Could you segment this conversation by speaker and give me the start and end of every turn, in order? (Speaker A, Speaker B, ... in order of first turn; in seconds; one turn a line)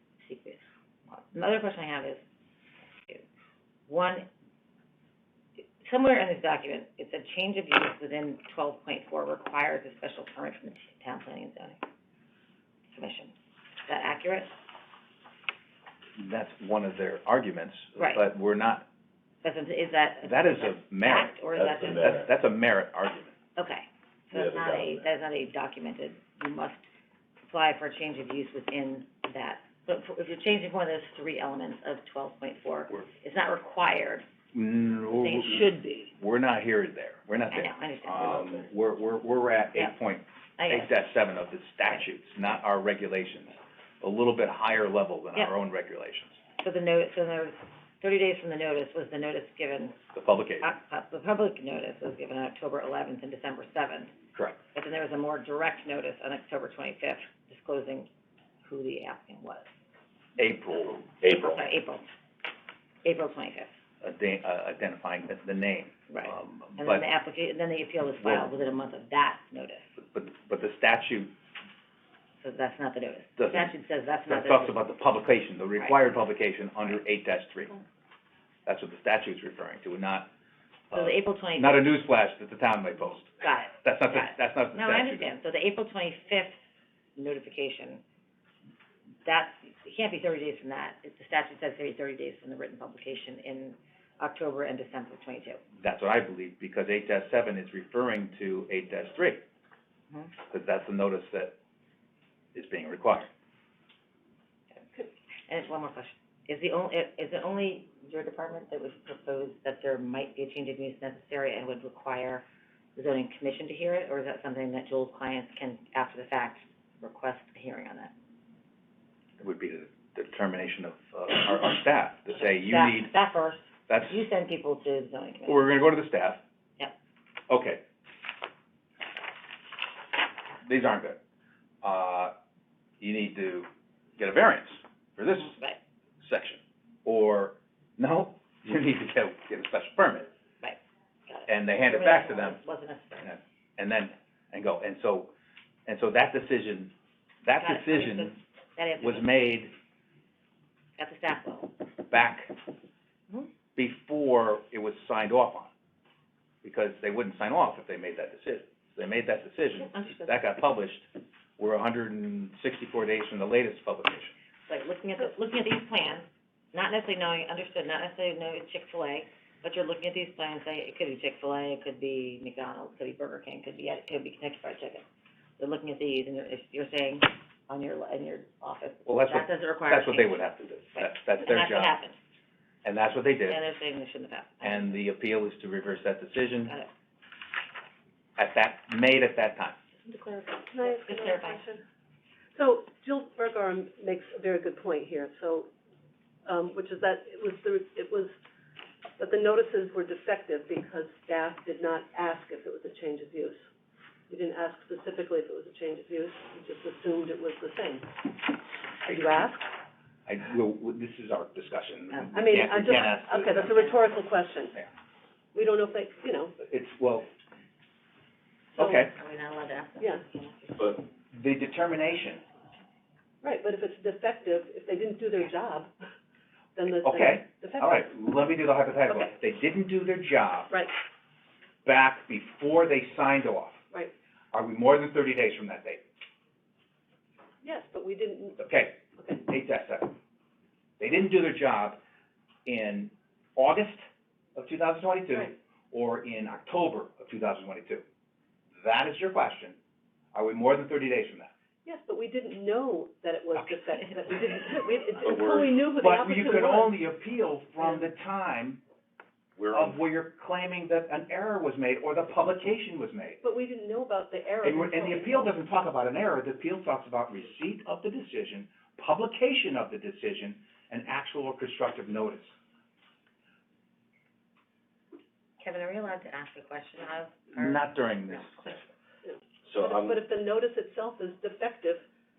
Speaker A: 0.2-2.2
Speaker A: 3.9-4.3
Speaker A: 5.8-11.8
Speaker A: 12.9-13.3
Speaker A: 13.8-14.5
Speaker B: 16.2-18.9
Speaker A: 17.9-18.2
Speaker A: 19.4-22.3
Speaker B: 20.2-23.3
Speaker C: 21.5-22.3
Speaker A: 23.6-26.8
Speaker C: 24.3-25.0
Speaker A: 27.4-34.2
Speaker B: 34.5-46.4
Speaker A: 35.1-36.1
Speaker A: 37.5-38.7
Speaker A: 40.6-40.9
Speaker A: 46.6-50.0
Speaker B: 50.1-50.7
Speaker A: 50.6-54.1
Speaker B: 54.3-54.6
Speaker A: 54.7-58.1
Speaker A: 58.6-59.7
Speaker B: 60.4-61.0
Speaker C: 61.2-61.7
Speaker A: 61.3-62.0
Speaker A: 63.0-63.7
Speaker B: 64.0-67.1
Speaker A: 66.1-69.9
Speaker B: 68.2-68.5
Speaker B: 70.0-71.3
Speaker A: 72.4-74.8
Speaker B: 73.4-73.7
Speaker B: 74.2-77.8
Speaker A: 75.8-76.2
Speaker B: 78.7-80.3
Speaker B: 80.9-85.3
Speaker A: 80.9-81.9
Speaker A: 83.4-86.6
Speaker A: 87.2-88.0
Speaker A: 89.2-95.6
Speaker B: 95.8-99.4
Speaker B: 100.5-101.5
Speaker B: 102.5-103.3
Speaker A: 105.5-112.4
Speaker A: 112.9-118.1
Speaker B: 119.4-123.1
Speaker A: 122.3-125.7
Speaker B: 123.9-124.2
Speaker B: 125.5-126.4
Speaker B: 127.5-127.8
Speaker B: 130.6-131.2
Speaker B: 131.8-132.3
Speaker B: 133.0-135.6
Speaker A: 135.5-135.8
Speaker B: 136.2-140.3
Speaker A: 140.6-143.3
Speaker B: 141.5-142.6
Speaker B: 143.2-145.3
Speaker B: 145.8-148.4
Speaker A: 147.5-149.3
Speaker B: 149.0-149.7
Speaker A: 151.0-151.7
Speaker B: 152.1-152.5
Speaker B: 153.8-155.7
Speaker B: 156.6-164.3
Speaker A: 159.8-160.4
Speaker A: 164.7-175.0
Speaker A: 175.6-180.4
Speaker B: 179.1-182.0
Speaker A: 180.9-182.2
Speaker B: 182.8-183.6
Speaker A: 183.5-185.0
Speaker B: 184.6-186.7
Speaker A: 186.6-186.9
Speaker B: 188.4-189.8
Speaker A: 190.0-191.6
Speaker D: 190.7-191.8
Speaker D: 192.5-195.7
Speaker D: 196.4-198.3
Speaker D: 199.2-203.6
Speaker D: 204.3-208.2
Speaker D: 209.0-209.7
Speaker B: 210.2-213.7
Speaker A: 212.1-214.0
Speaker D: 212.3-214.8
Speaker D: 215.5-216.5
Speaker B: 216.6-217.3
Speaker D: 218.8-219.1
Speaker B: 218.8-219.1
Speaker A: 218.8-221.0
Speaker B: 221.3-222.4
Speaker D: 223.4-225.9
Speaker D: 226.8-228.1
Speaker B: 226.9-230.7
Speaker B: 231.8-233.8
Speaker B: 234.5-236.0
Speaker D: 237.6-238.6
Speaker B: 238.6-240.1
Speaker D: 239.2-239.4
Speaker B: 241.0-242.0
Speaker B: 242.7-248.0
Speaker B: 248.8-249.8
Speaker B: 250.3-251.5
Speaker D: 251.8-257.0
Speaker C: 255.2-255.9
Speaker B: 256.0-258.8
Speaker D: 257.8-258.1
Speaker C: 259.6-260.0
Speaker B: 259.7-263.4
Speaker D: 263.4-265.5
Speaker B: 264.6-272.5
Speaker A: 275.6-278.8
Speaker B: 277.5-278.8
Speaker D: 279.2-282.0
Speaker C: 279.6-280.2